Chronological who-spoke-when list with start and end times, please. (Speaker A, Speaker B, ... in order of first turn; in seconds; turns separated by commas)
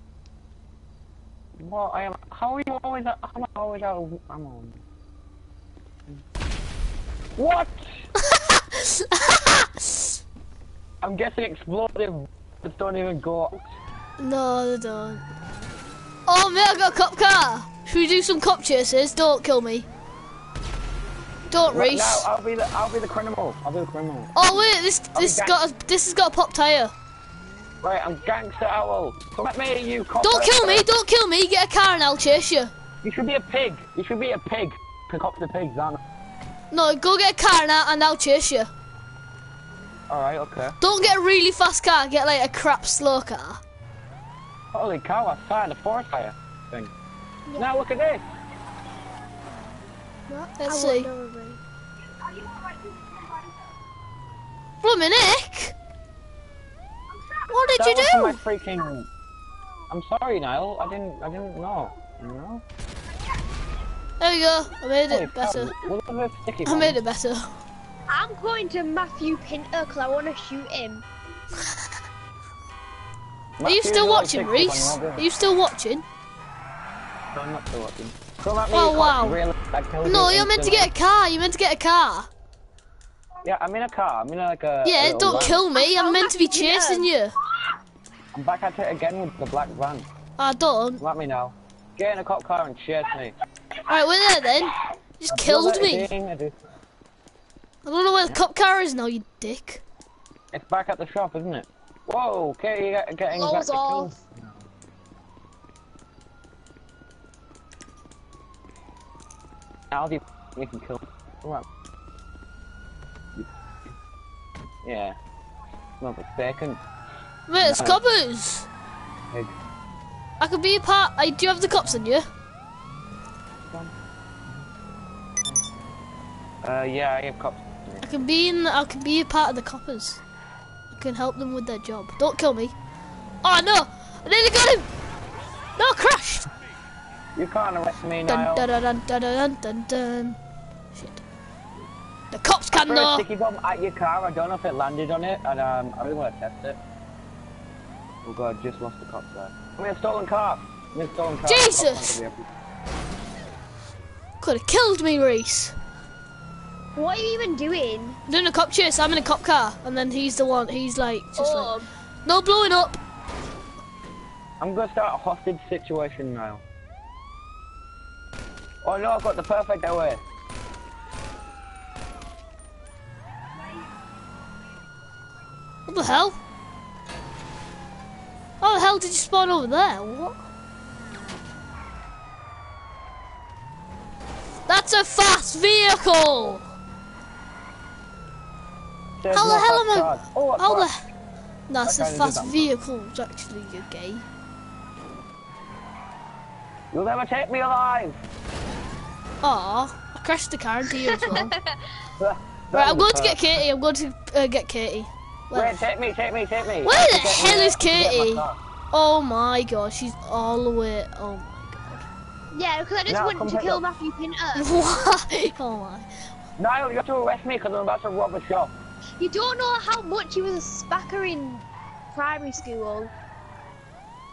Speaker A: 1.6-4.8, Speaker A: 7.3-8.1, Speaker B: 8.2-10.2, Speaker A: 11.0-13.7, Speaker B: 14.2-15.2, Speaker B: 16.3-19.9, Speaker B: 21.5-22.3, Speaker A: 21.7-24.3, Speaker B: 24.3-26.9, Speaker A: 25.1-25.6, Speaker A: 27.8-30.9, Speaker B: 30.2-32.7, Speaker A: 33.0-36.0, Speaker B: 36.7-38.7, Speaker A: 40.1-40.8, Speaker B: 40.8-43.6, Speaker A: 44.7-46.9, Speaker A: 47.6-48.2, Speaker C: 50.3-51.6, Speaker B: 50.6-51.1, Speaker B: 54.8-55.7, Speaker B: 57.5-58.4, Speaker A: 57.7-59.1, Speaker A: 59.9-62.6, Speaker B: 64.2-65.7, Speaker A: 65.1-67.0, Speaker B: 66.6-67.6, Speaker C: 68.1-71.0, Speaker A: 73.6-75.2, Speaker B: 73.6-76.0, Speaker A: 77.3-80.9, Speaker B: 78.7-79.4, Speaker B: 80.0-82.3, Speaker A: 83.4-85.7, Speaker B: 84.8-87.3, Speaker C: 85.3-87.1, Speaker A: 88.3-90.1, Speaker B: 90.4-91.0, Speaker A: 91.0-93.3, Speaker B: 93.9-96.1, Speaker A: 95.3-96.7, Speaker B: 97.8-99.8, Speaker A: 100.5-104.7, Speaker C: 103.3-104.1, Speaker A: 109.9-111.7, Speaker A: 114.8-115.2, Speaker A: 116.0-116.8, Speaker B: 117.5-118.7, Speaker A: 117.6-118.0, Speaker B: 120.4-122.3, Speaker A: 123.6-123.9, Speaker A: 125.4-125.9, Speaker A: 126.6-128.2, Speaker B: 128.0-130.2, Speaker B: 130.9-132.7, Speaker B: 133.4-134.9, Speaker B: 135.8-136.5, Speaker A: 137.3-138.7, Speaker B: 138.3-140.4, Speaker B: 140.9-141.2, Speaker B: 142.3-143.2, Speaker A: 142.7-146.8, Speaker A: 148.2-152.6, Speaker B: 151.4-152.2, Speaker B: 154.4-155.8, Speaker C: 156.9-158.2, Speaker B: 158.3-161.7, Speaker C: 161.4-161.9, Speaker B: 162.2-163.0, Speaker A: 164.6-166.6, Speaker A: 168.8-170.2, Speaker B: 175.9-176.4, Speaker B: 178.6-180.4, Speaker B: 184.7-186.6, Speaker A: 189.2-190.9, Speaker B: 189.3-191.0, Speaker B: 191.7-194.2, Speaker A: 191.8-192.7, Speaker A: 196.9-198.2, Speaker B: 199.4-201.5, Speaker C: 201.1-201.6, Speaker A: 202.2-203.4, Speaker B: 202.7-205.8, Speaker A: 205.5-208.6, Speaker B: 206.8-212.1, Speaker C: 212.5-214.7, Speaker A: 213.1-213.8, Speaker B: 214.5-216.1, Speaker A: 216.6-218.7, Speaker C: 219.2-223.1